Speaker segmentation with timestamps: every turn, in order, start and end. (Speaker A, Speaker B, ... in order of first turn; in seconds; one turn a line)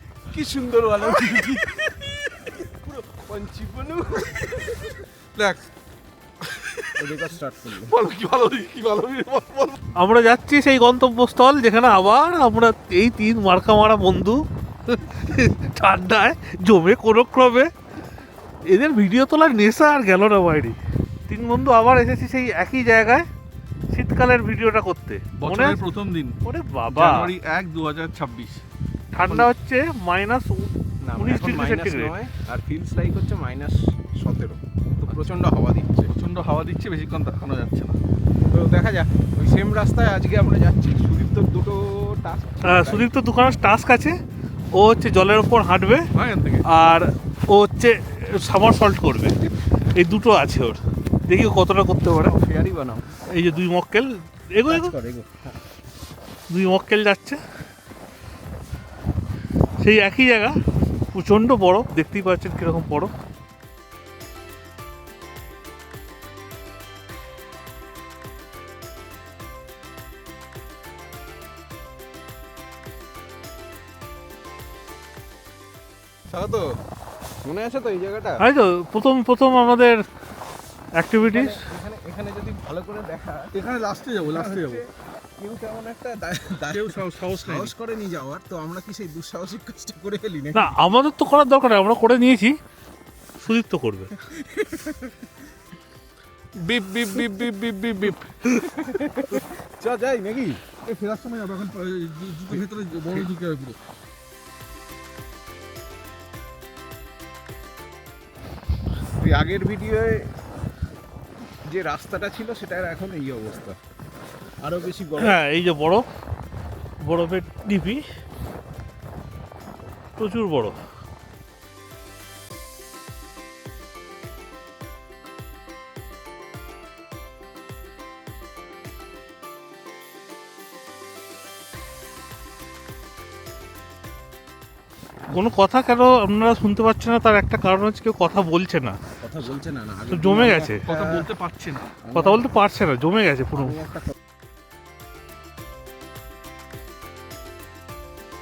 Speaker A: 0.3-5.0
Speaker B: 5.3-5.7
Speaker B: 6.4-7.2
Speaker A: 7.0-8.0
Speaker B: 7.8-9.8
Speaker C: 9.9-17.7
Speaker C: 18.6-23.3
Speaker C: 23.9-25.8
Speaker B: 25.4-26.4
Speaker C: 26.4-27.3
Speaker B: 26.9-28.6
Speaker C: 29.1-32.1
Speaker B: 29.2-29.5
Speaker A: 31.0-36.1
Speaker B: 36.1-38.0
Speaker A: 38.5-43.1
Speaker C: 42.6-44.2
Speaker C: 44.8-46.0
Speaker B: 46.1-46.7
Speaker C: 46.6-49.4
Speaker C: 49.9-52.3
Speaker A: 52.2-53.1
Speaker C: 53.3-54.9
Speaker A: 54.6-55.5
Speaker C: 56.5-57.4
Speaker C: 59.8-60.5
Speaker C: 61.1-63.1
Speaker A: 76.3-76.8
Speaker A: 77.4-78.4
Speaker C: 78.4-80.0
Speaker C: 81.0-81.6
Speaker A: 81.2-83.5
Speaker B: 83.5-84.8
Speaker A: 84.2-84.9
Speaker A: 85.4-90.7
Speaker B: 86.7-87.7
Speaker C: 90.5-92.5
Speaker C: 93.4-94.1
Speaker A: 94.2-95.3
Speaker B: 96.5-98.6
Speaker A: 98.6-100.6
Speaker B: 100.8-103.8
Speaker A: 109.2-110.3
Speaker A: 111.6-113.8
Speaker A: 114.6-115.4
Speaker C: 115.2-116.0
Speaker C: 117.0-118.0
Speaker C: 120.2-120.8
Speaker C: 135.3-139.0
Speaker A: 139.2-141.3
Speaker C: 140.1-140.8
Speaker B: 140.8-141.9
Speaker A: 142.0-142.5
Speaker C: 142.1-143.8
Speaker A: 143.6-144.1